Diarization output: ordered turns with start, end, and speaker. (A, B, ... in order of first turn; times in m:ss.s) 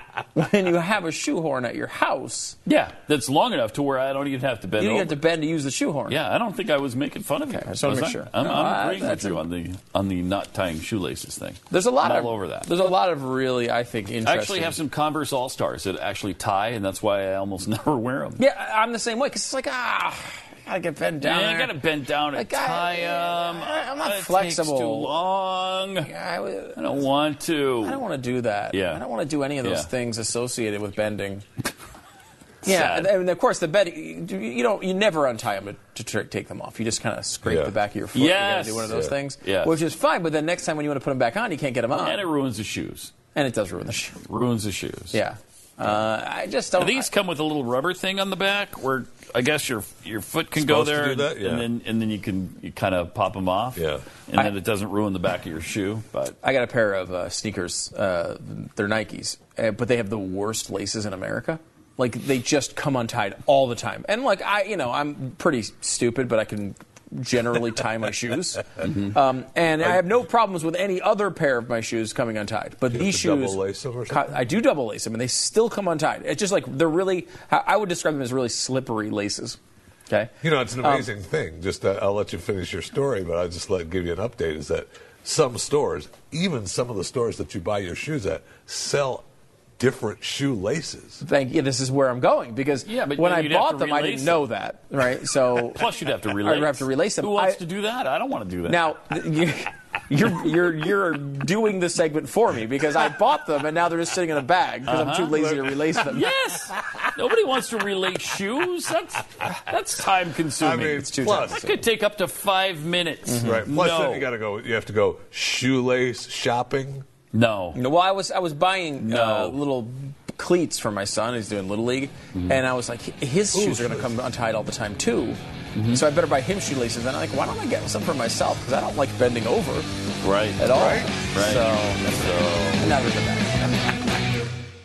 0:00.3-0:02.6 A
0:02.7-0:05.2 B
0:04.8-0:06.2 A
0:06.1-0:12.7 B
0:07.5-0:09.4 A
0:11.7-0:14.8 A
0:14.2-0:18.4 B
0:18.4-0:21.8 A
0:21.2-0:26.1 B
0:22.3-0:25.1 A
0:26.0-0:26.9 A
0:26.8-0:28.0 B
0:27.8-0:31.4 A
0:28.7-0:29.0 B
0:29.6-0:29.9 B
0:32.6-0:33.1 B
0:32.6-0:42.2 A
0:37.4-0:37.8 C
0:38.1-0:39.8 B
0:38.9-0:39.2 C
0:41.9-0:43.1 B
0:43.3-0:44.2 A
0:44.2-0:45.2 B
0:45.1-0:47.1 A
0:46.8-0:56.4 B
0:50.6-0:51.7 C
0:53.8-0:54.1 C
0:56.4-1:19.6 A
1:08.8-1:09.1 B
1:12.9-1:14.3 C
1:20.1-1:21.1 A
1:20.4-1:29.2 C
1:29.8-1:31.2 C
1:31.2-1:35.9 A
1:32.8-1:34.4 B
1:35.6-1:38.8 B
1:36.4-1:37.6 A
1:38.7-1:46.3 A
1:44.9-1:45.5 B
1:45.5-1:45.8 C
1:46.1-1:54.3 B
1:50.6-1:51.6 C
1:50.9-1:51.8 A
1:53.4-1:57.1 C
1:53.4-1:53.6 A
1:57.3-1:57.8 B
1:57.8-2:05.4 A
1:59.0-1:59.6 B
2:02.3-2:02.6 B
2:03.5-2:04.1 C
2:05.8-2:06.0 B
2:05.9-2:09.9 A
2:10.2-2:10.8 B
2:10.6-2:13.9 A
2:10.7-2:11.1 C
2:11.3-2:13.1 B